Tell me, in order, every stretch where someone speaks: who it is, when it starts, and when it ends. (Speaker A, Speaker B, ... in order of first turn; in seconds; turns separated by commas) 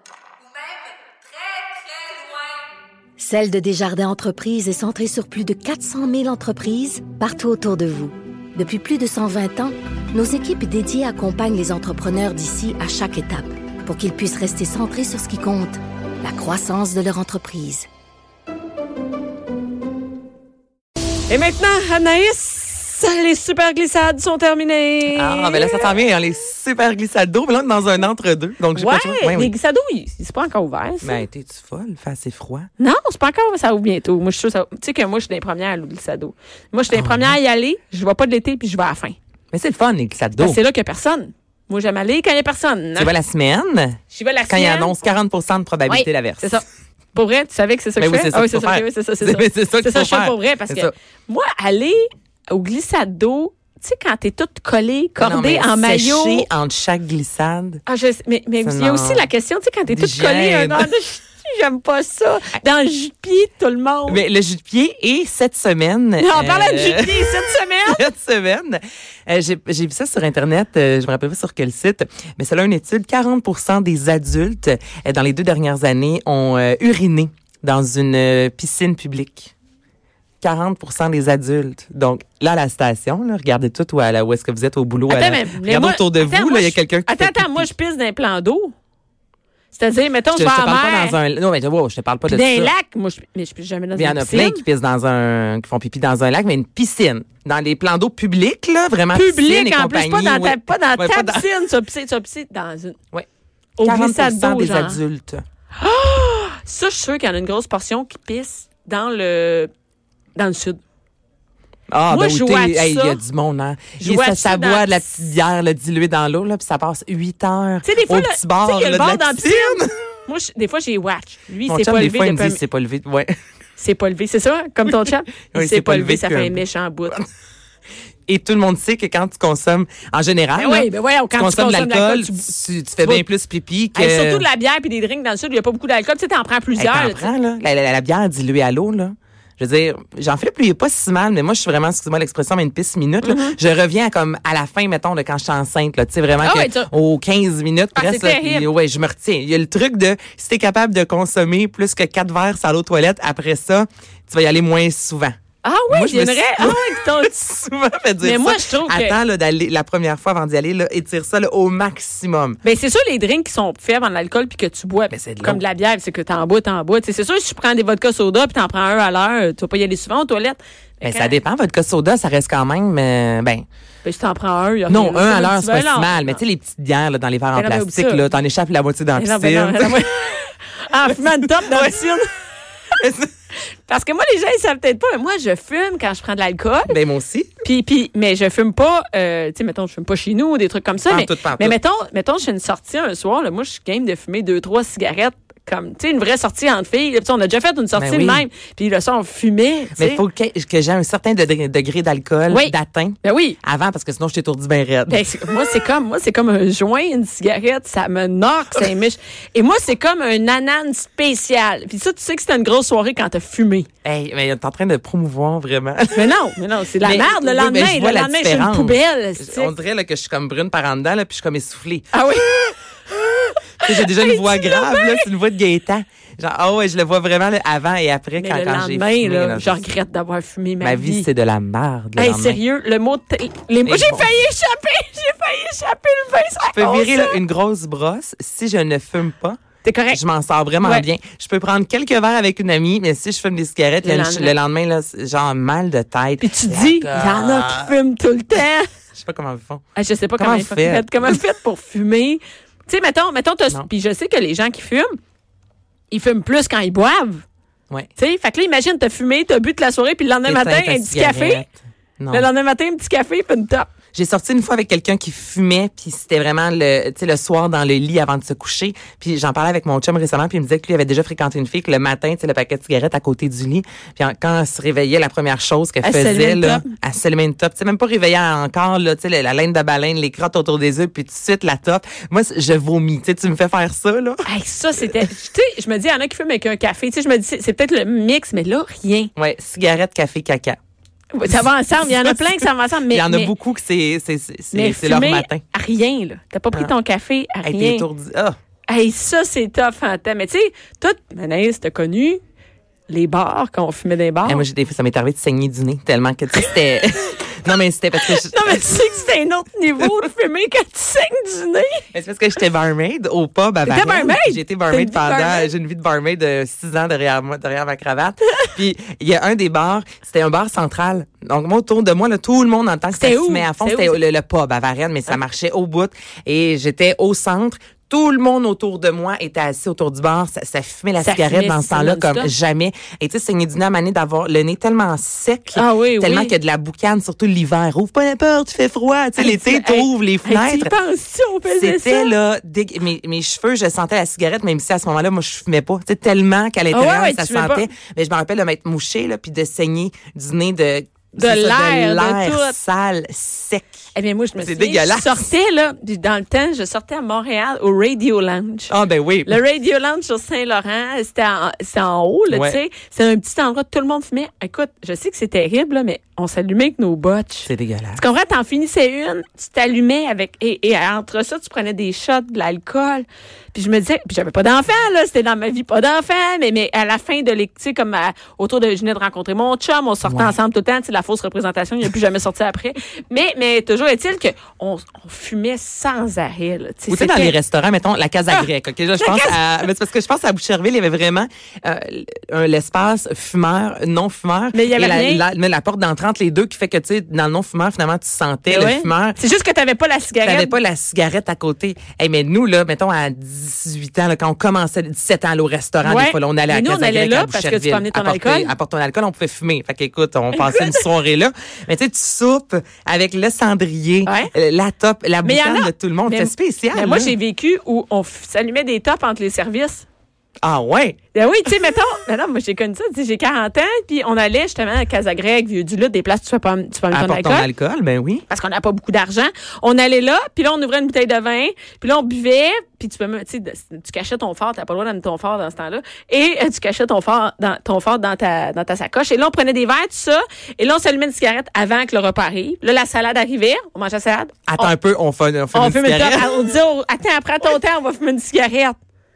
Speaker A: 1.4-2.2, Speaker B: 3.2-17.9, Speaker A: 21.3-25.9, Speaker C: 25.1-29.5, Speaker A: 28.7-31.2, Speaker C: 31.0-32.7, Speaker A: 32.8-39.2, Speaker C: 36.9-37.4, Speaker C: 39.5-40.6, Speaker A: 40.4-43.1, Speaker C: 43.0-46.5, Speaker A: 44.1-45.0, Speaker A: 45.9-56.5, Speaker C: 48.0-50.9, Speaker C: 55.2-57.8, Speaker A: 57.9-64.2, Speaker C: 58.6-59.3, Speaker C: 59.9-60.9, Speaker C: 64.1-79.5, Speaker A: 66.2-68.1, Speaker C: 80.4-87.7, Speaker A: 85.1-88.7, Speaker A: 89.7-91.2, Speaker C: 90.3-92.7, Speaker A: 92.3-94.6, Speaker C: 94.0-101.5, Speaker A: 99.1-103.0, Speaker A: 103.8-105.0, Speaker C: 103.8-105.4, Speaker A: 105.8-109.7, Speaker A: 110.3-110.8, Speaker C: 111.9-120.0, Speaker A: 112.1-113.2, Speaker A: 114.0-115.2, Speaker A: 117.8-122.6, Speaker C: 121.7-123.3, Speaker A: 123.8-127.2, Speaker C: 124.9-127.2, Speaker C: 128.3-134.5, Speaker A: 130.6-132.5, Speaker A: 133.9-137.3, Speaker C: 136.8-155.4, Speaker A: 143.2-143.6, Speaker A: 146.4-146.9, Speaker A: 148.0-148.7, Speaker A: 155.6-157.3, Speaker C: 155.9-162.6, Speaker A: 158.2-159.2, Speaker A: 162.6-171.4, Speaker C: 165.1-165.6, Speaker C: 171.0-173.6, Speaker A: 174.0-176.4, Speaker C: 174.9-180.1, Speaker A: 177.6-178.3, Speaker A: 179.2-182.3, Speaker C: 181.1-182.2, Speaker C: 183.0-183.3, Speaker A: 183.9-187.0, Speaker C: 186.9-187.5, Speaker A: 187.6-200.2, Speaker C: 191.1-191.8, Speaker C: 197.9-198.5, Speaker C: 200.0-205.3, Speaker A: 202.5-203.6, Speaker A: 205.1-213.9, Speaker C: 214.0-216.4, Speaker A: 216.1-219.7, Speaker C: 217.0-222.1, Speaker A: 222.1-222.7, Speaker A: 223.5-225.3, Speaker C: 223.8-229.9, Speaker A: 228.4-231.3, Speaker C: 230.8-232.6, Speaker A: 232.2-237.4, Speaker C: 233.8-234.3, Speaker C: 236.7-248.0, Speaker A: 239.8-240.2, Speaker A: 240.8-241.1, Speaker A: 244.0-244.5, Speaker A: 246.4-248.9, Speaker C: 249.2-249.8, Speaker A: 249.9-255.2, Speaker C: 250.4-251.3, Speaker A: 256.1-257.4, Speaker A: 258.2-261.7, Speaker C: 260.5-262.5, Speaker A: 262.3-263.9, Speaker C: 264.1-285.2, Speaker A: 276.0-276.9, Speaker A: 284.5-289.3, Speaker C: 289.4-290.8, Speaker A: 291.3-293.5, Speaker C: 292.0-295.6, Speaker A: 294.7-298.1, Speaker C: 297.6-298.6, Speaker A: 298.9-302.4, Speaker A: 303.1-304.6, Speaker C: 304.5-309.1, Speaker A: 308.2-312.0, Speaker C: 312.1-340.9, Speaker A: 313.8-315.7, Speaker A: 323.1-324.2, Speaker A: 331.2-332.5, Speaker A: 335.7-336.5, Speaker A: 339.4-342.3, Speaker C: 341.7-354.0, Speaker A: 346.9-347.9, Speaker A: 351.4-352.8, Speaker A: 354.1-358.9, Speaker C: 354.6-355.5, Speaker C: 358.9-359.6, Speaker A: 359.4-387.6, Speaker C: 362.5-362.8, Speaker C: 367.7-368.2, Speaker C: 380.2-380.6, Speaker C: 387.1-399.4, Speaker A: 388.5-389.6, Speaker A: 394.7-395.4, Speaker A: 398.7-400.7, Speaker C: 400.4-417.4, Speaker A: 406.0-408.7, Speaker A: 410.5-411.1, Speaker A: 414.2-414.5, Speaker A: 415.4-420.1, Speaker C: 420.6-421.7, Speaker A: 421.3-427.7, Speaker C: 427.1-428.4, Speaker A: 428.5-444.9, Speaker C: 444.7-446.5, Speaker A: 445.7-449.0